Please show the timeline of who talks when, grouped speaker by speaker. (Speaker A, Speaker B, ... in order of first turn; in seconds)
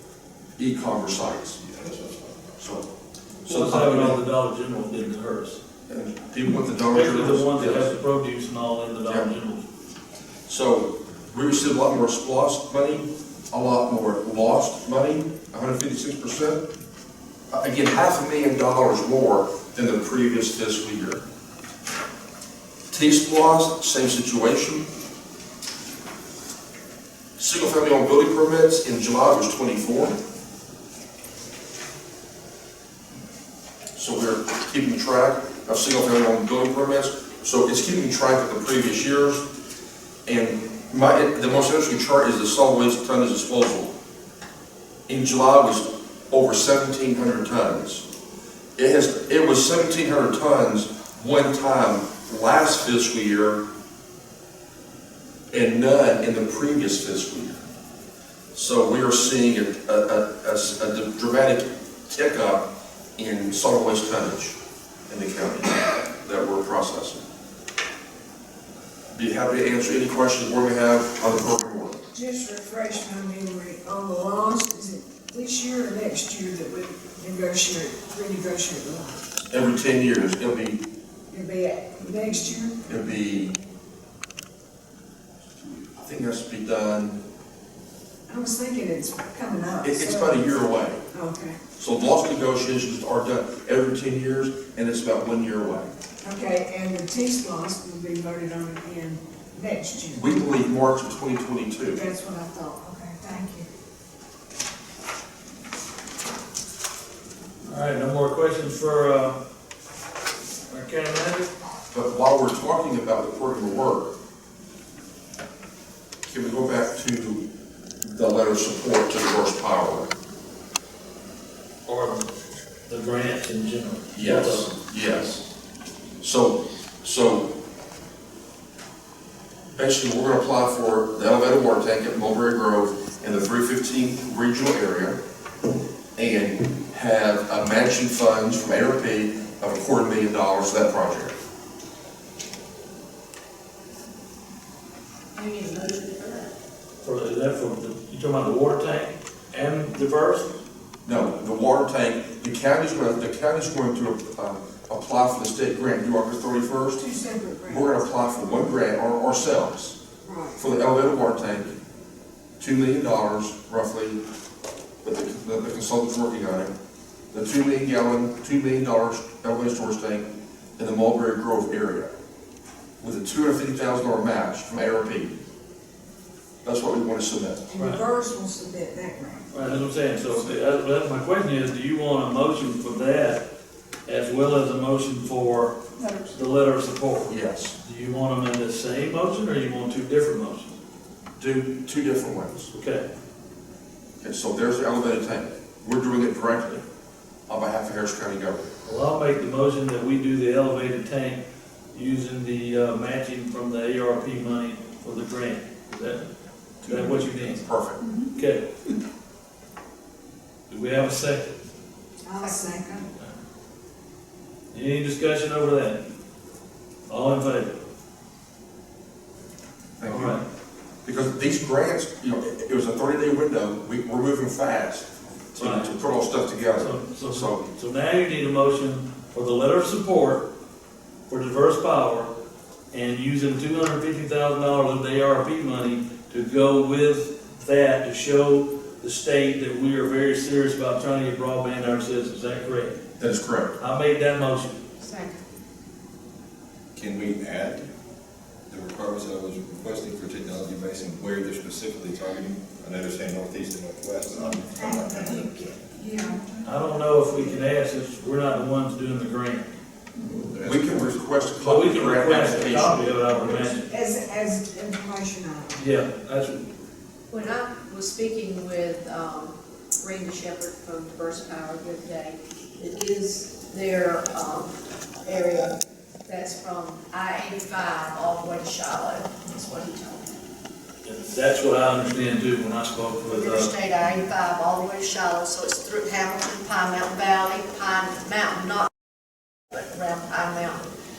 Speaker A: 0.6-1.6, 2.6-2.9, 3.4-4.2, 5.9-7.9, 10.5-16.6, 17.5-21.2, 22.9-24.9, 27.4-30.2, 34.0-39.5, 40.2-43.9, 45.1-48.0, 48.8-53.6, 55.5-57.6, 58.5-64.6, 65.1-67.2, 69.1-72.0, 79.5-80.8, 82.9-83.5, 85.6-87.2, 89.8-91.0, 91.8-95.9, 100.2-102.0, 111.9-114.1, 116.3-117.4, 118.0-120.1, 124.1-125.4, 126.2-127.5, 129.8-135.2, 136.2-141.3, 151.0-157.0, 157.7-160.0, 160.6-161.8, 162.6-164.2, 165.0-166.7, 167.3-172.1, 173.0-175.3, 176.6-177.7, 187.3-187.8, 191.4-192.7, 194.2-196.8, 197.5-198.7, 206.8-208.1, 220.0-220.4, 221.0-227.7, 243.2-243.8, 260.6-263.1
Speaker B: 1.6-2.4, 247.0-247.9, 248.7-255.4, 260.3-261.2
Speaker C: 3.5-5.6, 6.9-9.6, 107.6-109.4, 110.7-111.5, 121.8-122.3, 122.9-124.7, 147.0-150.5, 179.5-183.4, 184.1-185.8, 186.3-190.7, 192.7-193.1, 198.8-201.4, 201.9-206.3, 206.8-207.6, 208.3-208.7, 210.7-211.5, 214.7-216.0, 217.1-217.8, 220.1-220.4, 225.6-225.9, 226.8-230.5, 231.3-232.3, 232.9-243.0, 243.8-244.8, 256.6-259.7, 261.6-263.9, 265.8-266.7, 281.0-283.7
Speaker D: 72.1-79.3, 81.3-82.8, 88.3-91.6, 96.2-100.6, 101.9-103.7, 157.0-157.9, 160.2-160.6, 177.7-179.5, 186.0-186.3, 212.2-213.1, 254.7-257.5, 263.4-265.8
Speaker E: 145.3-146.5, 245.0-245.3, 267.3-275.7, 276.3-280.3, 283.3-288.9, 289.7-290.9